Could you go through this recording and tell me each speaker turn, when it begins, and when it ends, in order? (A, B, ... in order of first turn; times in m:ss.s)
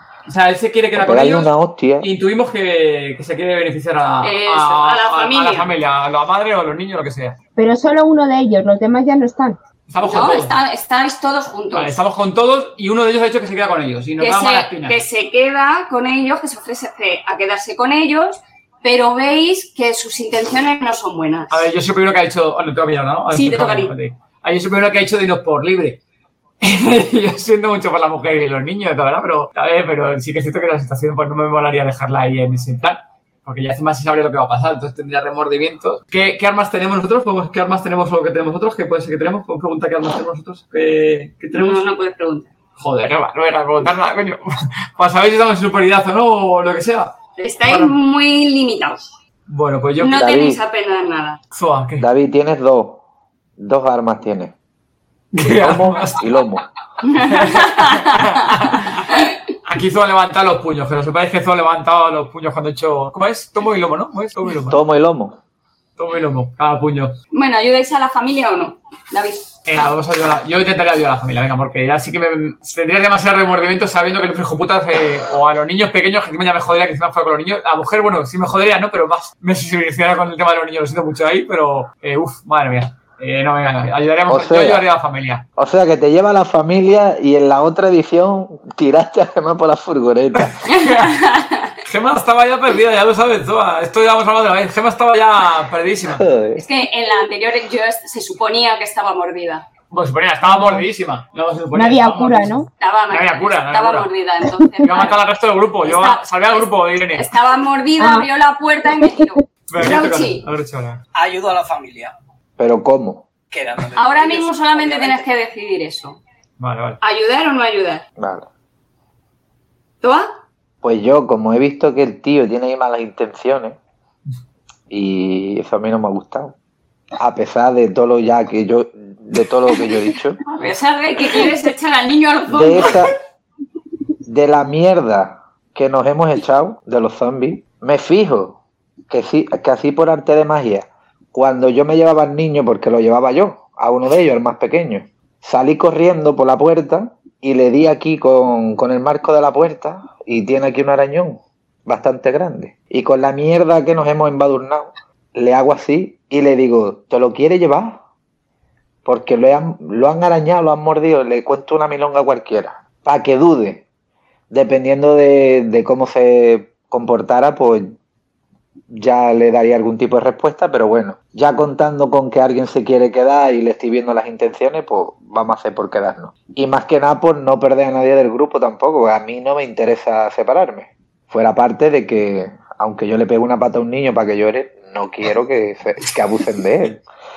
0:00.3-0:07.4 A
0:01.0-0:02.1 B
0:04.2-0:05.7 C
0:07.6-0:09.6 D
0:09.9-0:10.6 A
0:10.0-0:12.0 C
0:11.7-0:15.0 A
0:14.2-0:21.6 C
0:21.5-0:26.0 A
0:23.3-0:23.9 C
0:26.6-0:41.8 A
0:41.5-0:42.5 C
0:42.8-0:47.1 A
0:47.4-0:49.1 C
0:47.6-0:48.0 A
0:49.5-0:50.2 A
0:50.0-0:51.4 C
0:50.1-0:50.6 B
0:51.5-0:52.1 A
0:52.0-0:53.0 B
0:53.6-0:54.5 B
0:55.3-0:56.3 A
0:55.4-0:56.6 B
0:57.0-0:59.3 C
0:57.2-1:04.8 A
1:04.7-1:05.4 B
1:06.0-1:07.2 A
1:07.3-1:09.5 C
1:09.6-1:25.4 A
1:24.3-1:24.9 B
1:25.6-1:30.6 B
1:30.4-1:31.1 A
1:30.7-1:31.8 C
1:31.8-1:36.2 A
1:36.0-1:36.6 B
1:36.6-1:39.6 C
1:39.9-1:44.1 A
1:40.5-1:40.8 D
1:41.8-1:42.7 D
1:42.8-1:45.2 C
1:44.8-1:47.3 A
1:45.8-1:50.5 C
1:48.0-1:48.3 D
1:49.0-1:49.2 D
1:49.7-1:51.0 A
1:51.1-1:52.1 E
1:52.6-1:53.3 B
1:53.5-1:55.3 E
1:54.0-1:56.2 C
1:56.6-1:57.0 A
1:57.0-1:58.0 C
1:58.2-1:58.5 B
2:00.0-2:00.3 C
2:00.8-2:03.8 B
2:04.9-2:06.5 B
2:07.2-2:10.4 B
2:10.4-2:13.1 C
2:12.5-2:13.1 B
2:14.3-2:38.0 B
2:39.0-2:43.8 B
2:44.5-2:48.0 B
2:48.9-3:07.0 B